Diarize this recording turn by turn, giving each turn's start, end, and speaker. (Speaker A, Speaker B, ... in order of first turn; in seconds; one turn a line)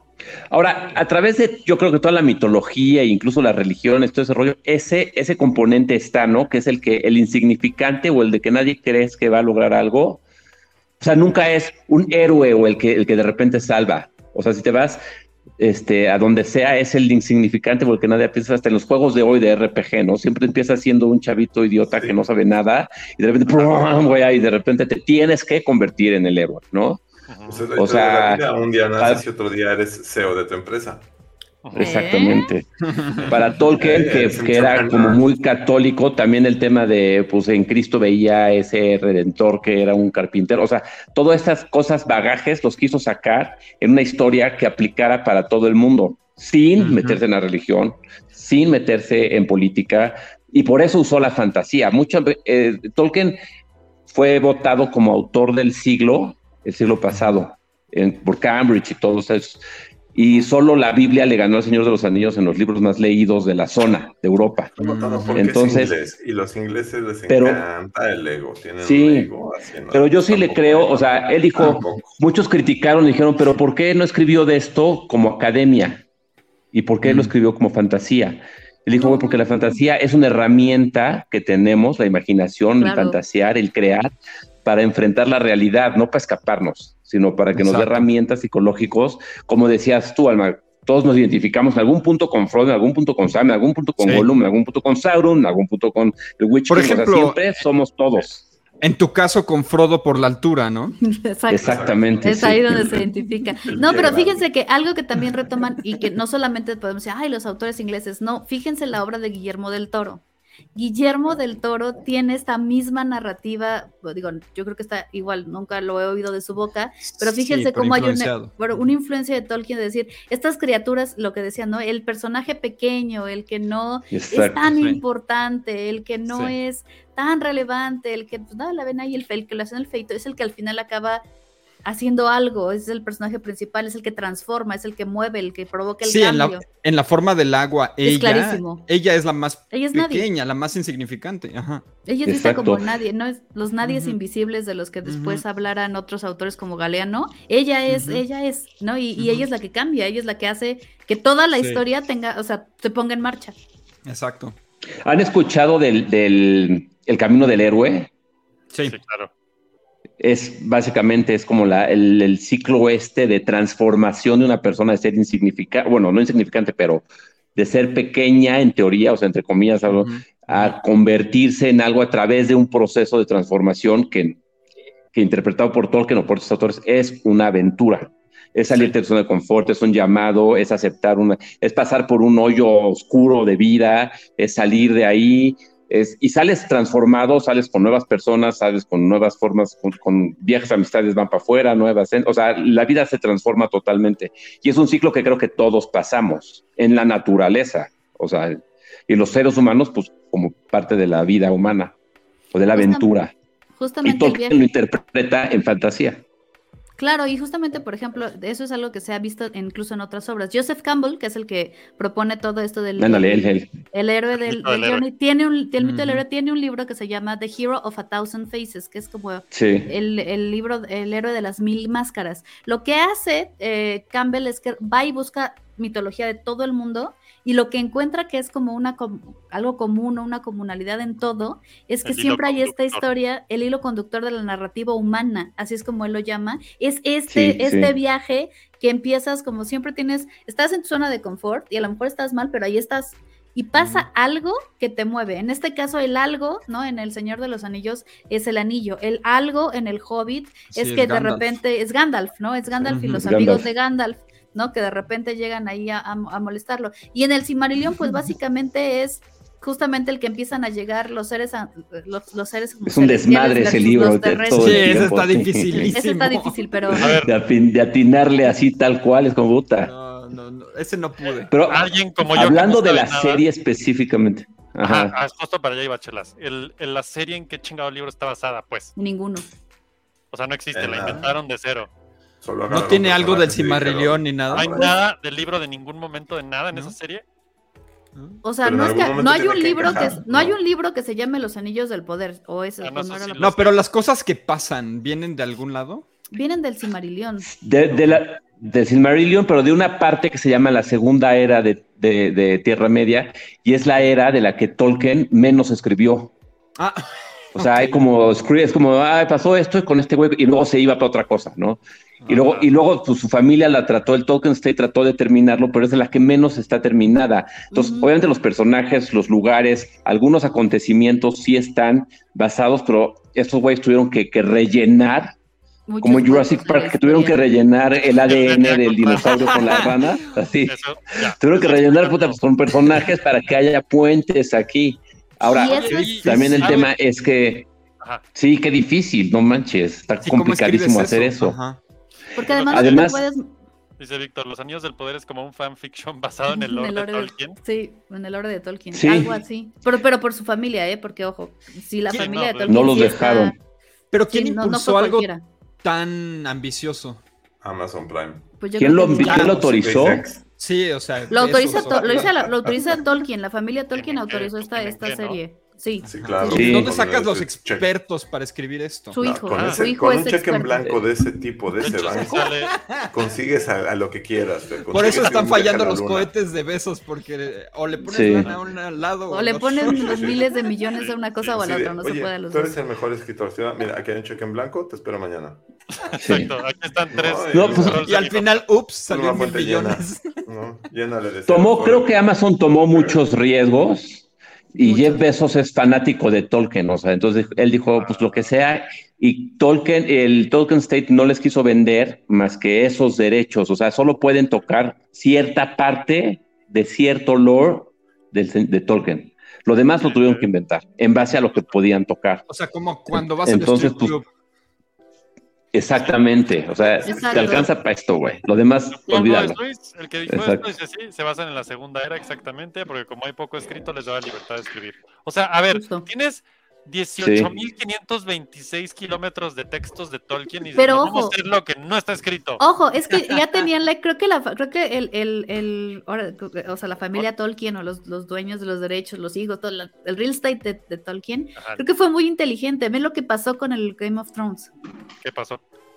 Speaker A: 0.5-10.2
Speaker A: 11.0-15.0
Speaker A: 15.6-27.0
Speaker B: 27.3-27.7
Speaker C: 27.5-31.1
Speaker A: 27.8-29.2
Speaker B: 31.6-31.9
Speaker A: 31.8-53.4
Speaker D: 31.8-32.5
Speaker E: 32.9-33.3
Speaker C: 33.7-35.2
Speaker E: 46.8-47.2
Speaker A: 54.1-59.6
Speaker A: 60.1-64.7
Speaker E: 64.8-65.5
Speaker C: 64.8-72.1
Speaker A: 65.3-66.0
Speaker A: 67.3-67.7
Speaker A: 68.8-69.3
Speaker A: 69.9-76.0
Speaker A: 76.7-84.1
Speaker E: 77.0-77.3
Speaker D: 79.0-79.8
Speaker D: 82.8-83.2
Speaker A: 84.7-98.5
Speaker E: 87.5-88.0
Speaker E: 94.0-94.3
Speaker E: 96.7-97.4
Speaker E: 98.8-101.0
Speaker D: 101.0-110.2
Speaker A: 101.5-103.0
Speaker C: 101.6-102.2
Speaker C: 103.7-104.4
Speaker D: 110.8-131.2
Speaker E: 117.2-118.6
Speaker A: 124.1-124.8
Speaker E: 124.7-125.0
Speaker E: 126.3-126.5
Speaker D: 131.8-136.7
Speaker E: 136.0-141.9
Speaker D: 138.0-138.8
Speaker D: 139.7-140.3
Speaker D: 142.1-153.6
Speaker A: 142.2-142.8
Speaker E: 143.8-144.2
Speaker E: 145.1-145.4
Speaker E: 147.9-148.2
Speaker E: 149.2-149.4
Speaker E: 151.6-151.8
Speaker E: 154.1-154.6
Speaker A: 155.0-158.1
Speaker E: 158.7-159.0
Speaker B: 158.8-159.3
Speaker A: 160.2-167.1
Speaker A: 167.6-174.4
Speaker E: 169.9-170.8
Speaker A: 175.1-201.9
Speaker A: 202.5-203.3
Speaker D: 202.7-203.1
Speaker D: 203.8-204.6
Speaker A: 204.0-206.2
Speaker D: 207.0-265.0
Speaker A: 213.0-213.7
Speaker B: 214.4-215.0
Speaker E: 215.8-216.2
Speaker A: 219.5-219.9
Speaker B: 232.1-233.1
Speaker A: 237.3-237.9
Speaker E: 243.8-244.1
Speaker E: 250.7-251.6
Speaker E: 252.9-253.3
Speaker A: 253.2-253.7
Speaker A: 262.9-265.9
Speaker E: 264.5-266.8
Speaker D: 265.9-267.2
Speaker A: 267.0-269.9
Speaker B: 267.0-267.3
Speaker E: 269.8-271.5
Speaker A: 271.5-275.2
Speaker B: 271.6-273.4
Speaker B: 274.8-278.9
Speaker D: 279.0-279.5
Speaker B: 280.3-281.9
Speaker C: 280.7-281.3
Speaker C: 282.4-284.9
Speaker E: 282.7-284.9
Speaker B: 284.5-287.2
Speaker E: 288.2-288.4
Speaker D: 288.4-293.6
Speaker C: 288.6-290.6
Speaker B: 292.8-293.8
Speaker E: 293.4-296.1
Speaker D: 296.3-297.5
Speaker A: 297.5-306.3
Speaker E: 306.8-308.1
Speaker A: 307.6-325.3
Speaker E: 312.2-312.5
Speaker D: 317.7-318.1
Speaker D: 325.9-327.4
Speaker A: 326.0-337.7
Speaker B: 328.2-329.8
Speaker E: 329.4-329.9
Speaker B: 330.6-332.4
Speaker D: 335.4-336.3
Speaker E: 335.5-336.9
Speaker B: 336.6-336.9
Speaker A: 338.4-341.6
Speaker E: 340.2-341.8
Speaker D: 342.4-343.5
Speaker B: 342.4-343.2
Speaker A: 342.7-343.2
Speaker B: 344.0-347.6
Speaker D: 346.5-353.6
Speaker A: 348.9-349.4
Speaker B: 352.1-353.1
Speaker A: 352.7-353.6
Speaker E: 354.1-355.3
Speaker D: 354.3-355.4
Speaker E: 355.8-357.2
Speaker C: 357.6-358.5
Speaker D: 358.6-359.5
Speaker A: 358.8-360.3
Speaker E: 359.2-359.6
Speaker C: 359.4-360.4
Speaker E: 360.5-362.5
Speaker D: 361.3-366.6
Speaker B: 363.9-365.4
Speaker C: 366.1-367.9
Speaker E: 366.1-369.2
Speaker A: 366.5-366.9
Speaker D: 369.1-371.0
Speaker C: 369.2-372.5
Speaker B: 369.5-369.9
Speaker B: 371.8-372.8
Speaker E: 371.9-373.1
Speaker C: 373.1-376.3
Speaker E: 374.9-380.4
Speaker A: 378.1-378.5
Speaker D: 379.3-382.8
Speaker C: 379.8-380.4
Speaker B: 381.0-381.5
Speaker C: 381.5-385.6
Speaker B: 386.1-388.7
Speaker A: 386.2-386.5
Speaker C: 387.1-388.1
Speaker A: 387.5-388.0
Speaker E: 388.0-390.4
Speaker C: 389.1-392.2
Speaker A: 391.5-412.4
Speaker C: 392.9-393.2
Speaker D: 394.8-395.2
Speaker B: 397.9-398.5
Speaker B: 410.0-410.5
Speaker E: 412.5-414.3
Speaker A: 413.1-414.2
Speaker A: 415.7-419.6
Speaker D: 417.1-417.7
Speaker B: 418.9-432.6
Speaker A: 420.3-420.6
Speaker D: 425.7-426.1
Speaker A: 427.2-427.5
Speaker D: 430.8-431.4
Speaker D: 432.6-444.7
Speaker B: 441.6-441.8
Speaker B: 445.2-445.6